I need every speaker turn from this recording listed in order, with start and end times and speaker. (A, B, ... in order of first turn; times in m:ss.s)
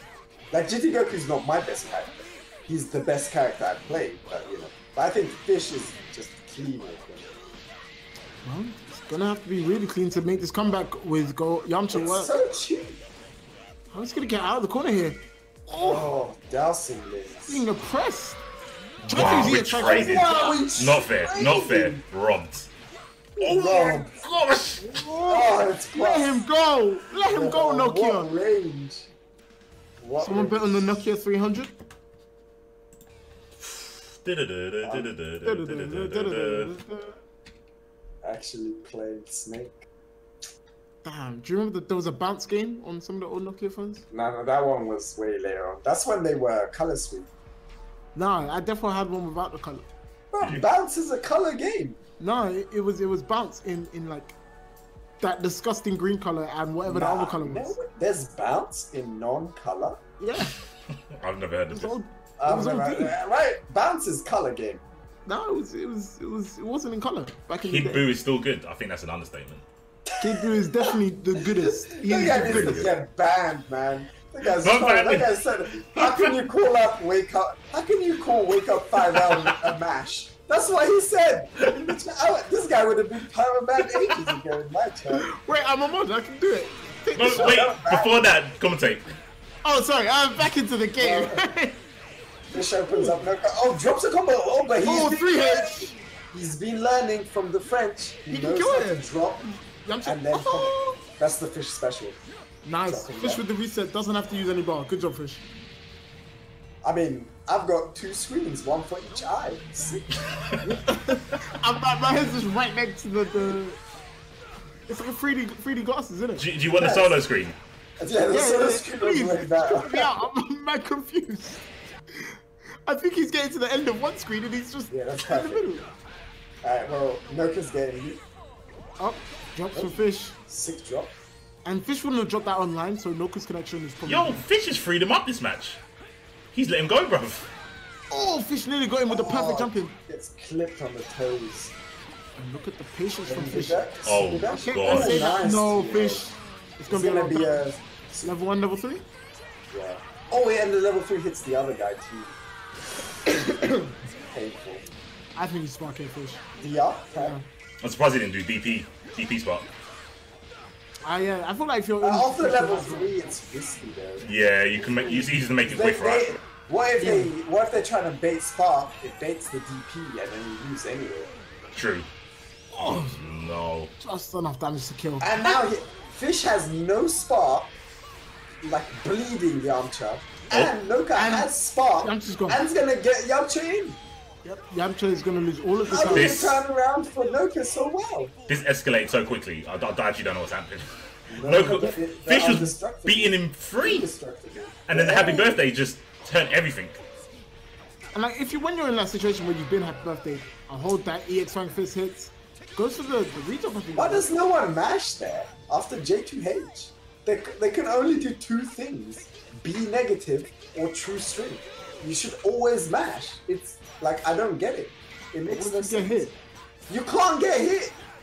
0:00.5-0:07.3 A
0:08.4-0:12.3 B
0:11.9-0:13.0 A
0:13.9-0:16.1 B
0:15.8-0:17.6 A
0:17.5-0:18.4 B
0:19.0-0:22.7 C
0:19.0-0:20.6 B
0:19.1-0:22.0 A
0:23.4-0:24.2 A
0:23.4-0:25.0 C
0:24.8-0:28.3 B
0:25.2-0:26.4 A
0:27.2-0:29.1 A
0:30.0-0:30.9 A
0:30.2-0:31.7 B
0:33.7-0:36.7 C
0:34.8-0:35.1 A
0:35.4-0:37.2 B
0:38.2-0:39.8 A
0:41.0-0:44.0 B
0:44.1-0:47.3 A
0:48.1-0:49.9 B
0:50.3-0:52.0 A
0:50.4-0:50.7 C
0:52.2-0:54.4 B
0:55.2-0:57.8 B
0:56.8-1:00.0 A
1:00.2-1:00.5 B
1:01.1-1:01.9 C
1:01.7-1:03.1 B
1:02.4-1:04.8 A
1:05.2-1:08.0 B
1:07.6-1:09.6 C
1:10.0-1:25.2 A
1:10.2-1:12.9 B
1:12.2-1:12.9 C
1:14.5-1:15.3 C
1:15.9-1:16.4 C
1:19.1-1:19.6 C
1:25.1-1:27.6 B
1:27.2-1:29.1 C
1:27.2-1:28.3 A
1:29.6-1:31.8 B
1:31.0-1:31.5 A
1:32.5-1:42.2 A
1:32.9-1:33.3 B
1:34.8-1:35.9 B
1:38.3-1:39.1 B
1:39.8-1:41.0 B
1:42.6-1:45.4 B
1:42.8-1:43.4 A
1:46.8-1:50.2 A
1:50.3-1:50.6 C
1:50.6-1:53.8 B
1:54.9-1:56.4 B
1:56.4-1:57.6 C
1:56.7-1:57.2 A
1:58.0-2:00.1 A
1:58.3-2:05.9 B
2:04.9-2:05.7 A
2:06.6-2:08.2 A
2:09.0-2:10.4 B
2:10.5-2:11.1 A
2:11.6-2:14.4 B
2:14.0-2:15.8 C
2:16.5-2:17.5 C
2:18.1-2:19.9 B
2:19.1-2:21.7 A
2:22.4-2:23.9 B
2:23.2-2:26.2 A
2:24.0-2:25.2 C
2:24.5-2:29.0 B
2:26.9-2:28.3 A
2:29.7-2:32.4 A
2:33.3-2:33.9 B
2:34.3-2:34.8 A
2:35.3-2:36.4 B
2:36.6-2:37.4 A
2:37.2-2:37.4 B
2:37.8-2:39.7 C
2:41.0-2:43.2 B
2:42.0-2:44.3 A
2:44.2-2:46.4 C
2:45.0-2:45.4 B
2:45.6-2:51.3 A
2:47.0-2:47.3 B
2:51.7-2:52.1 C
2:52.7-2:53.2 B
2:52.8-2:53.9 C
2:54.0-2:55.6 B
2:55.2-2:57.7 A
2:58.6-3:04.0 A
3:01.1-3:02.6 B
3:04.4-3:06.4 B
3:05.9-3:08.3 A
3:06.0-3:06.6 C
3:08.5-3:10.8 C
3:11.3-3:15.6 A
3:11.4-3:14.1 C
3:14.9-3:17.0 C
3:18.1-3:24.3 B
3:23.9-3:36.2 A
3:35.5-3:36.4 B
3:36.9-3:38.0 A